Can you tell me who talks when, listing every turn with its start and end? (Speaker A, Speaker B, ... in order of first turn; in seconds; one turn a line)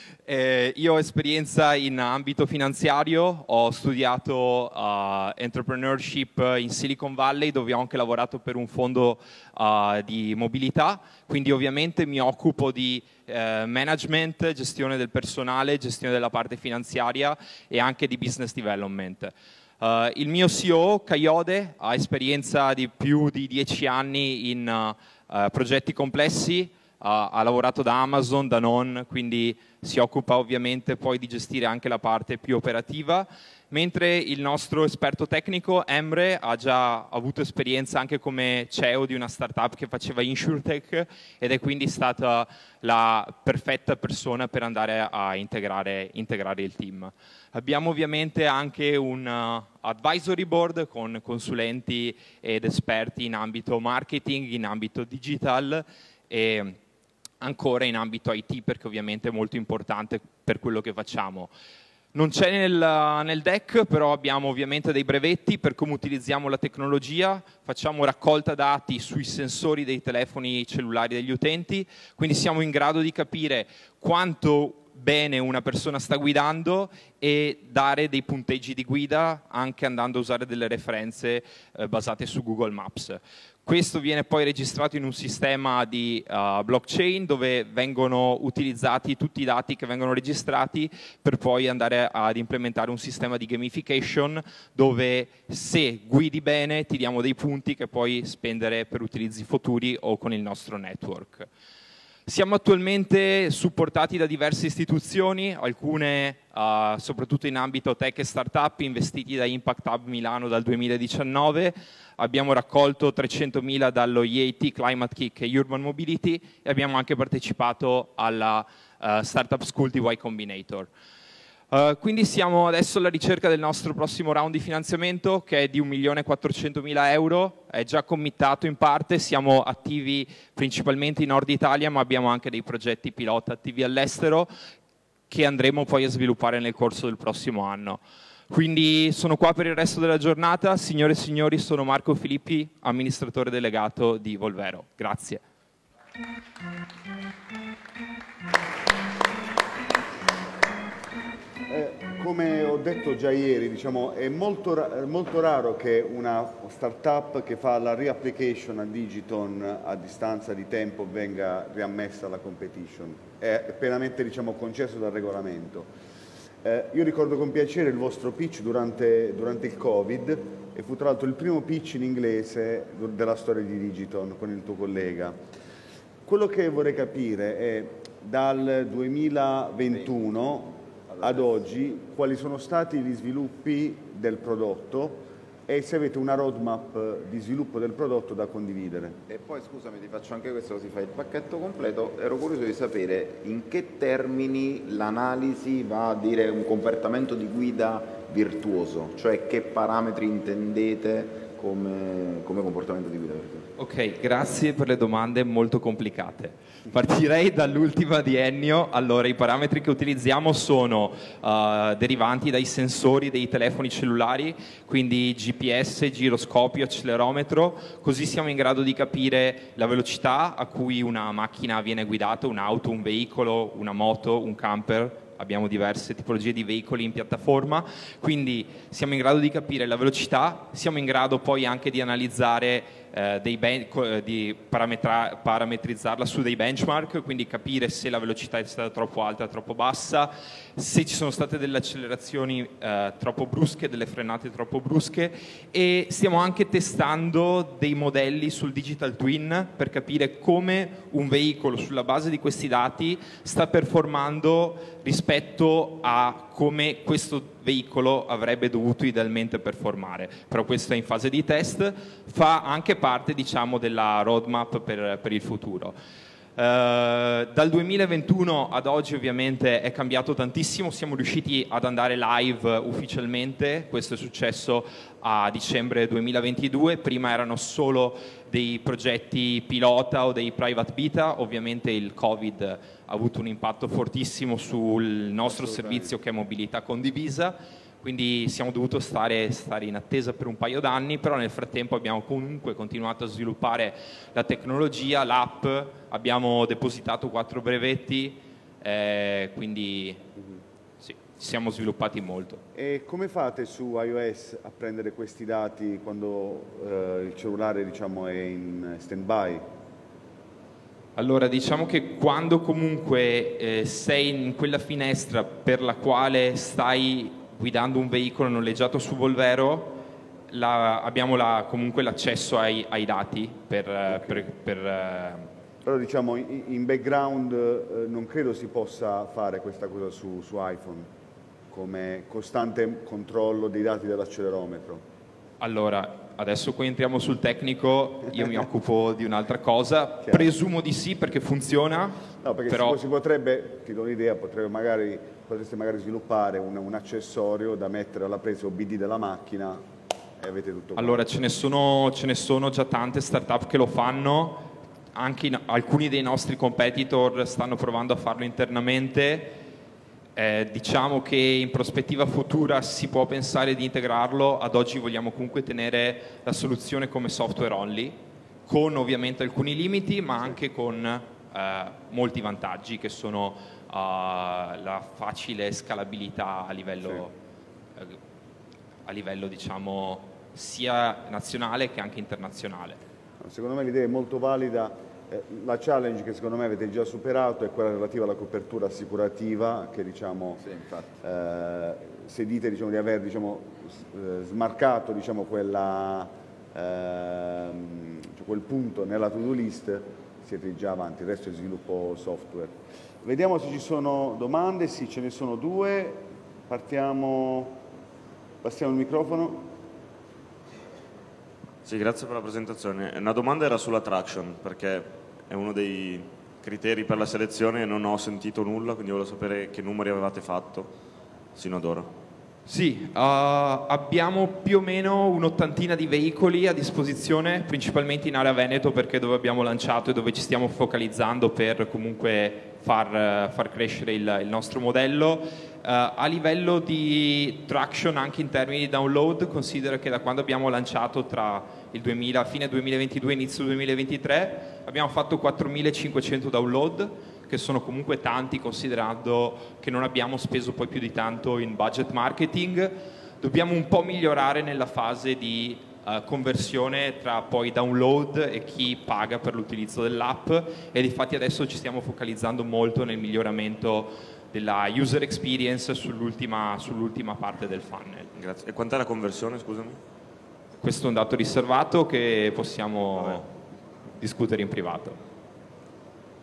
Speaker A: 0.2-56.8
Speaker A: 57.4-61.5
Speaker A: 62.1-101.5
Speaker A: 102.3-120.9
Speaker A: 121.7-134.5
Speaker A: 135.3-145.4
Speaker B: 151.7-165.9
Speaker B: 166.6-175.4
Speaker B: 176.3-189.2
Speaker C: 179.9-180.2
Speaker C: 181.1-181.6
Speaker C: 189.3-203.7
Speaker A: 203.8-265.9
Speaker A: 266.6-300.2
Speaker B: 285.4-286.1
Speaker A: 301.0-302.6
Speaker B: 302.8-309.6
Speaker A: 311.2-325.5
Speaker B: 324.1-324.5
Speaker B: 325.8-331.1
Speaker B: 331.7-335.0
Speaker A: 335.6-343.0
Speaker B: 340.2-340.5
Speaker B: 342.4-349.8
Speaker B: 350.4-351.2
Speaker A: 351.0-359.6
Speaker A: 360.4-377.3
Speaker A: 379.1-383.0
Speaker B: 383.4-390.6
Speaker C: 390.6-391.2
Speaker B: 391.2-407.8
Speaker B: 408.6-409.7
Speaker D: 411.8-420.9
Speaker D: 421.6-422.1
Speaker A: 422.7-468.3
Speaker D: 468.4-470.0
Speaker A: 470.8-473.5
Speaker A: 474.2-475.2